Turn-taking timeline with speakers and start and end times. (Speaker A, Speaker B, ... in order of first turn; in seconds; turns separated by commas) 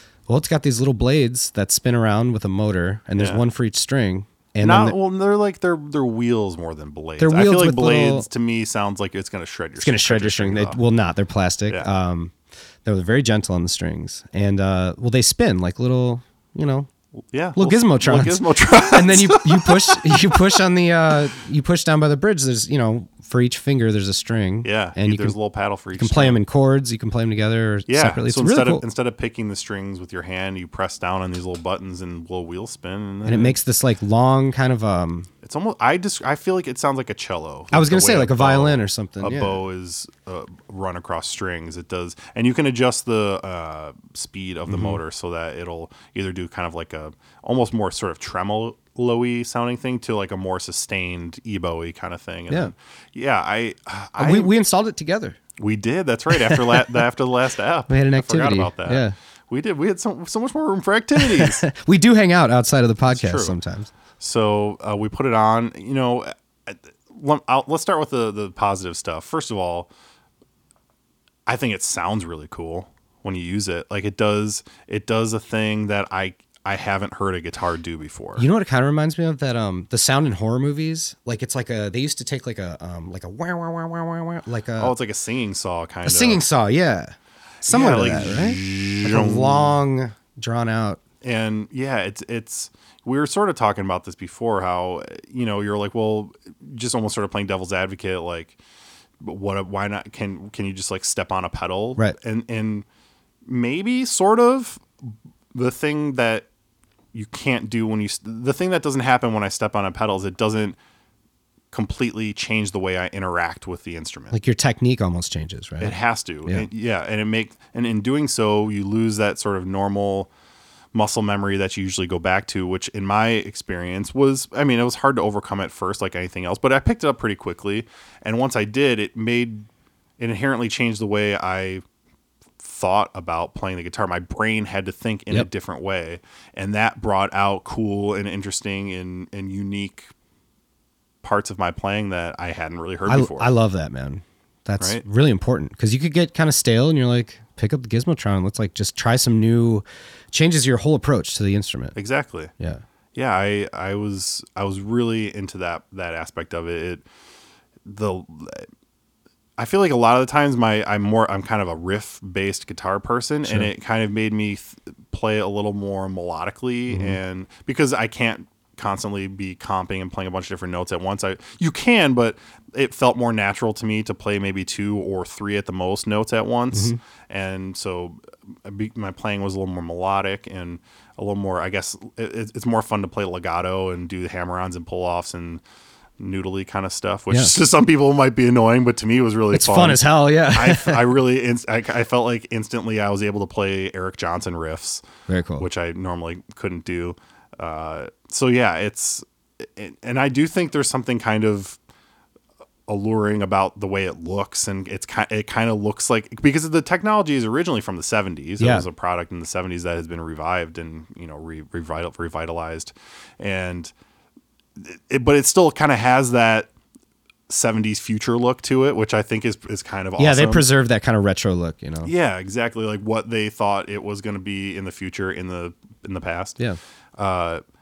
Speaker A: 0.3-5.0, Speaker B: 3.2-3.4, Speaker B: 4.6-10.8, Speaker A: 7.2-8.3, Speaker A: 9.8-12.3, Speaker A: 12.8-16.9, Speaker B: 17.3-20.6, Speaker A: 17.6-25.4, Speaker B: 24.6-26.4, Speaker A: 26.0-28.8, Speaker B: 27.9-33.6, Speaker A: 33.2-35.3, Speaker B: 35.4-54.5, Speaker A: 37.7-39.6, Speaker A: 44.7-45.0, Speaker A: 54.2-55.4, Speaker B: 55.6-61.7, Speaker A: 56.3-57.0, Speaker A: 57.9-59.1, Speaker A: 61.2-63.9, Speaker B: 63.1-63.6, Speaker B: 64.2-69.9, Speaker B: 71.5-78.5, Speaker A: 78.4-84.9, Speaker B: 84.8-86.4, Speaker A: 86.0-91.0, Speaker B: 87.7-89.8, Speaker B: 91.2-98.6, Speaker B: 99.2-102.9, Speaker B: 103.5-106.5, Speaker B: 107.1-110.8, Speaker B: 111.7-114.3, Speaker A: 114.3-116.7, Speaker B: 115.8-120.3, Speaker B: 120.9-129.7, Speaker B: 130.2-131.8, Speaker B: 132.6-140.1, Speaker B: 141.2-143.5, Speaker A: 143.1-152.0, Speaker B: 151.9-152.5, Speaker B: 153.2-157.1, Speaker B: 157.8-158.7, Speaker B: 159.6-185.6, Speaker A: 166.9-167.2, Speaker A: 176.7-177.0, Speaker B: 186.2-195.0, Speaker A: 189.5-191.2, Speaker A: 195.3-195.7, Speaker B: 195.6-201.8, Speaker B: 202.9-213.9, Speaker A: 208.6-208.9, Speaker B: 214.8-216.7, Speaker B: 217.5-220.7, Speaker A: 220.2-222.1, Speaker B: 222.0-226.6, Speaker B: 227.2-227.6